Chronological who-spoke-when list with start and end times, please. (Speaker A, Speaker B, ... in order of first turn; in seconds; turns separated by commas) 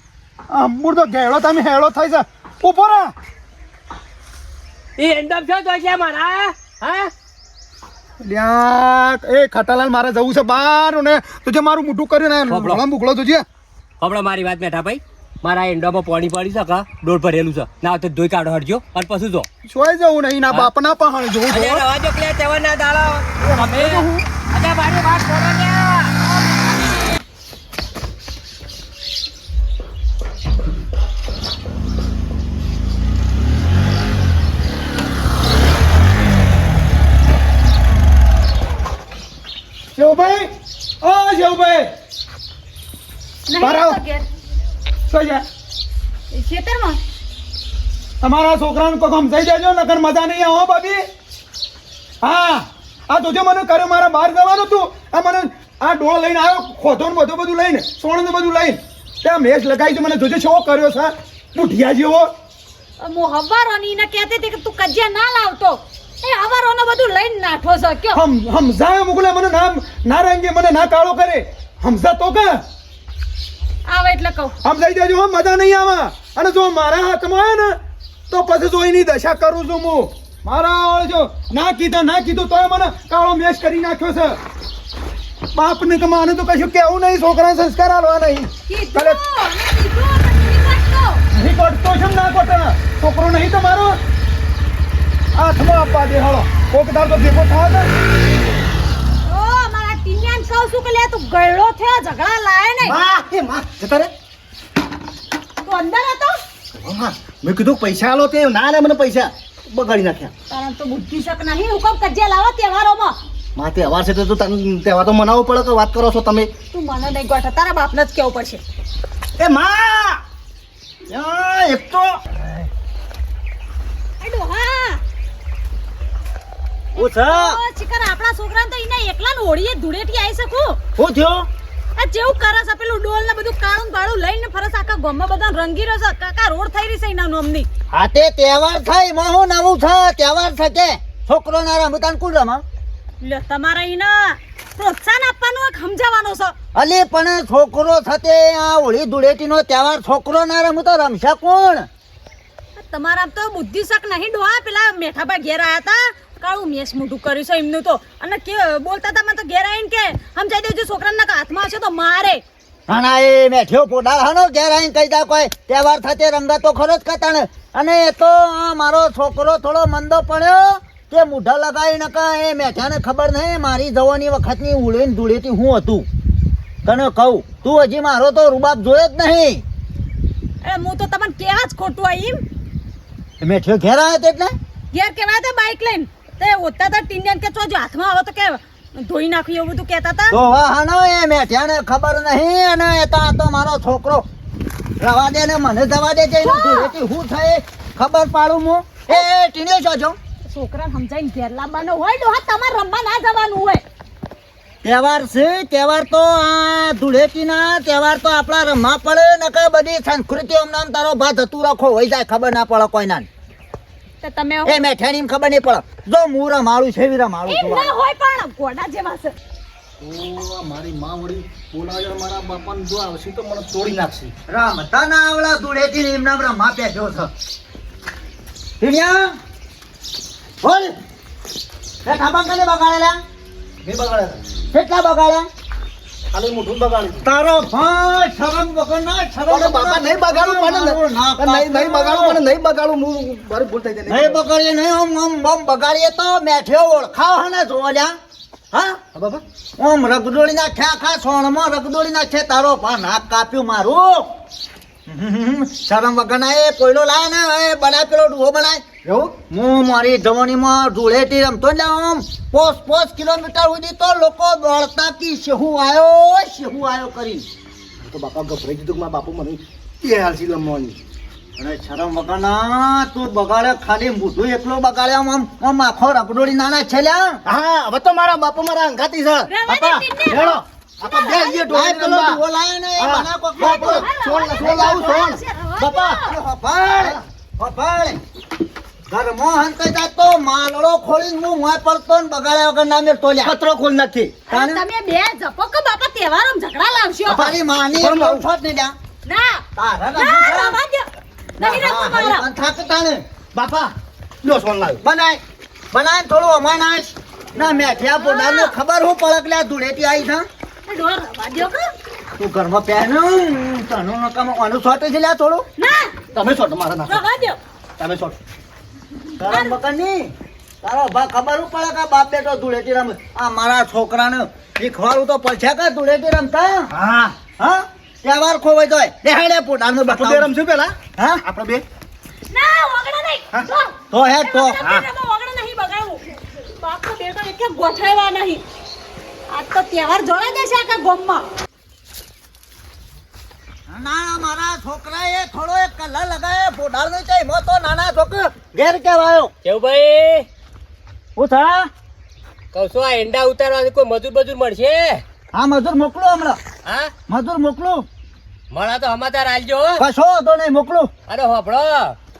Speaker A: 0.5-3.1, Speaker B: 5.0-7.1, Speaker A: 8.2-13.4, Speaker B: 12.5-12.8, Speaker B: 14.0-19.5, Speaker A: 19.7-21.8, Speaker B: 21.5-26.3, Speaker A: 23.5-24.2, Speaker A: 40.0-40.5, Speaker A: 41.0-41.9, Speaker C: 43.5-44.2, Speaker A: 43.6-44.0, Speaker A: 45.1-45.5, Speaker C: 46.3-47.0, Speaker A: 48.2-51.0, Speaker A: 52.2-62.3, Speaker C: 63.0-68.2, Speaker A: 68.1-72.6, Speaker C: 73.9-74.5, Speaker A: 74.6-77.8, Speaker A: 78.3-84.4, Speaker A: 85.5-89.2, Speaker C: 88.7-91.2, Speaker A: 91.3-94.0, Speaker A: 95.3-97.9, Speaker C: 99.2-103.0, Speaker D: 102.8-104.1, Speaker C: 105.6-106.4, Speaker D: 106.8-110.3, Speaker C: 110.5-113.2, Speaker D: 113.6-116.5, Speaker C: 116.7-118.6, Speaker D: 119.4-120.2, Speaker E: 121.1-122.1, Speaker C: 124.2-125.0, Speaker E: 127.0-127.6, Speaker C: 127.0-130.8, Speaker E: 131.0-131.5, Speaker C: 132.0-137.7, Speaker E: 137.9-142.6, Speaker C: 143.2-146.6, Speaker E: 146.8-151.9, Speaker C: 152.8-162.4, Speaker E: 162.9-176.1, Speaker E: 176.8-179.6, Speaker C: 180.6-182.4, Speaker E: 183.4-184.5, Speaker C: 184.9-190.4, Speaker E: 190.3-194.2, Speaker E: 195.0-200.2, Speaker C: 196.4-196.9, Speaker C: 200.5-203.8, Speaker E: 204.8-213.3, Speaker C: 214.2-214.8, Speaker E: 214.6-217.9, Speaker C: 217.5-219.3, Speaker D: 220.0-224.3, Speaker E: 224.5-227.3, Speaker E: 228.8-229.4, Speaker E: 230.6-230.9, Speaker E: 232.1-233.2, Speaker D: 233.8-234.4, Speaker E: 234.7-235.5, Speaker D: 236.3-237.2, Speaker E: 237.2-242.4, Speaker D: 239.5-244.4, Speaker E: 244.1-248.2, Speaker E: 248.7-249.0, Speaker D: 249.1-249.4, Speaker E: 249.8-254.3, Speaker E: 255.1-258.8, Speaker D: 259.1-259.4, Speaker E: 259.5-267.4, Speaker D: 268.0-271.0, Speaker E: 271.6-277.4, Speaker D: 277.4-282.4, Speaker C: 279.5-281.6, Speaker E: 281.6-285.0, Speaker D: 282.9-286.1, Speaker C: 283.6-286.3, Speaker E: 286.1-288.2, Speaker E: 289.1-293.6, Speaker D: 293.4-294.4, Speaker E: 294.5-294.8, Speaker C: 294.5-297.5, Speaker E: 297.3-298.9, Speaker D: 297.4-298.4, Speaker C: 299.2-299.6, Speaker E: 299.8-300.8, Speaker C: 300.1-301.1, Speaker C: 301.6-302.4, Speaker E: 301.6-303.2, Speaker D: 303.6-305.0, Speaker E: 305.0-305.4, Speaker E: 305.9-310.4, Speaker C: 308.1-308.7, Speaker C: 310.9-311.9, Speaker E: 312.4-315.6, Speaker C: 315.8-316.2, Speaker D: 316.3-317.2, Speaker C: 317.1-317.6, Speaker D: 318.0-318.4, Speaker E: 319.4-326.9, Speaker C: 319.5-319.7, Speaker D: 326.9-327.4, Speaker E: 327.6-330.5, Speaker D: 330.1-331.8, Speaker E: 331.2-331.4, Speaker C: 332.5-338.6, Speaker E: 334.1-335.0, Speaker C: 339.5-341.4, Speaker E: 343.9-349.5, Speaker B: 349.6-350.4, Speaker E: 351.4-351.9, Speaker B: 352.7-355.2, Speaker E: 355.5-356.6, Speaker B: 356.8-357.1, Speaker E: 357.3-358.1, Speaker B: 358.7-360.0, Speaker E: 360.0-361.1, Speaker B: 361.3-362.1